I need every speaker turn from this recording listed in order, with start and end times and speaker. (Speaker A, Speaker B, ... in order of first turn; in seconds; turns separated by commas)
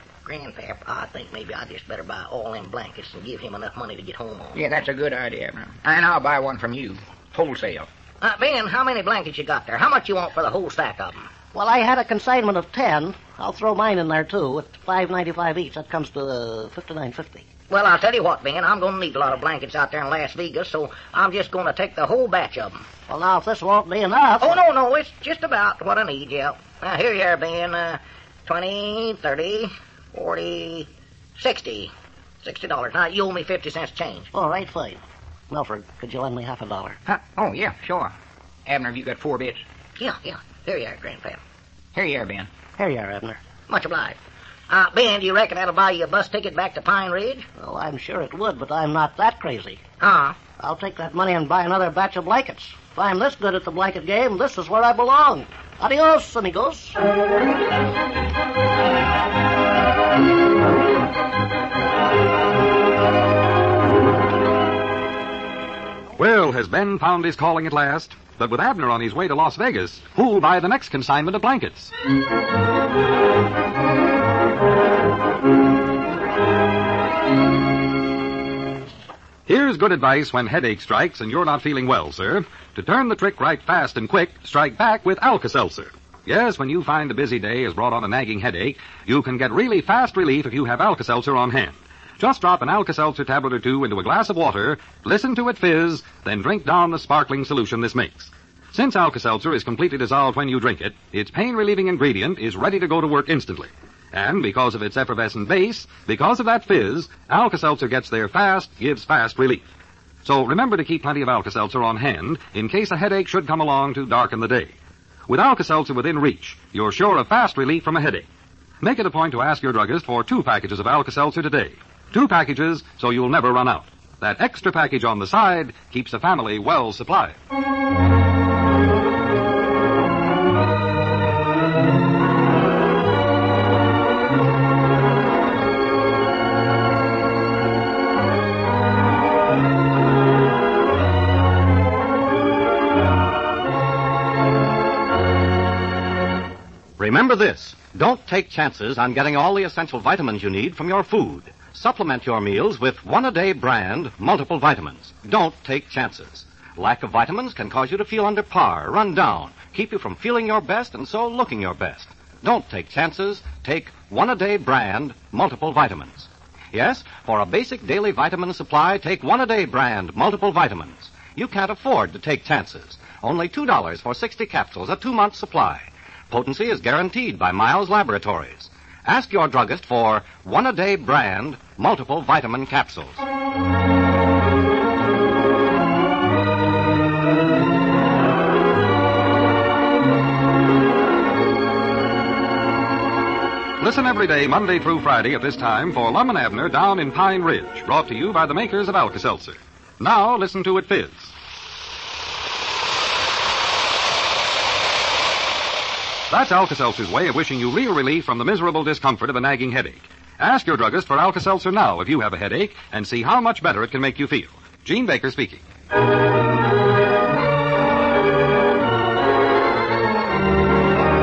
Speaker A: 0.2-4.6, Speaker B: 4.5-7.9, Speaker A: 8.2-11.3, Speaker C: 11.5-17.5, Speaker A: 17.7-22.9, Speaker C: 23.1-24.6, Speaker A: 24.4-31.9, Speaker A: 32.4-34.3, Speaker C: 34.3-35.0, Speaker C: 35.5-37.0, Speaker B: 37.1-38.1, Speaker B: 38.7-39.6, Speaker A: 40.0-41.4, Speaker B: 42.0-42.5, Speaker C: 42.8-43.4, Speaker A: 43.7-44.2, Speaker A: 44.7-47.5, Speaker C: 47.6-49.8, Speaker A: 50.0-50.4, Speaker C: 50.6-57.0, Speaker D: 66.2-71.9, Speaker D: 79.5-109.7, Speaker D: 110.2-114.7, Speaker D: 115.3-118.3, Speaker D: 118.8-127.4, Speaker E: 147.0-183.2, Speaker D: 193.8-201.3, Speaker D: 206.3-215.6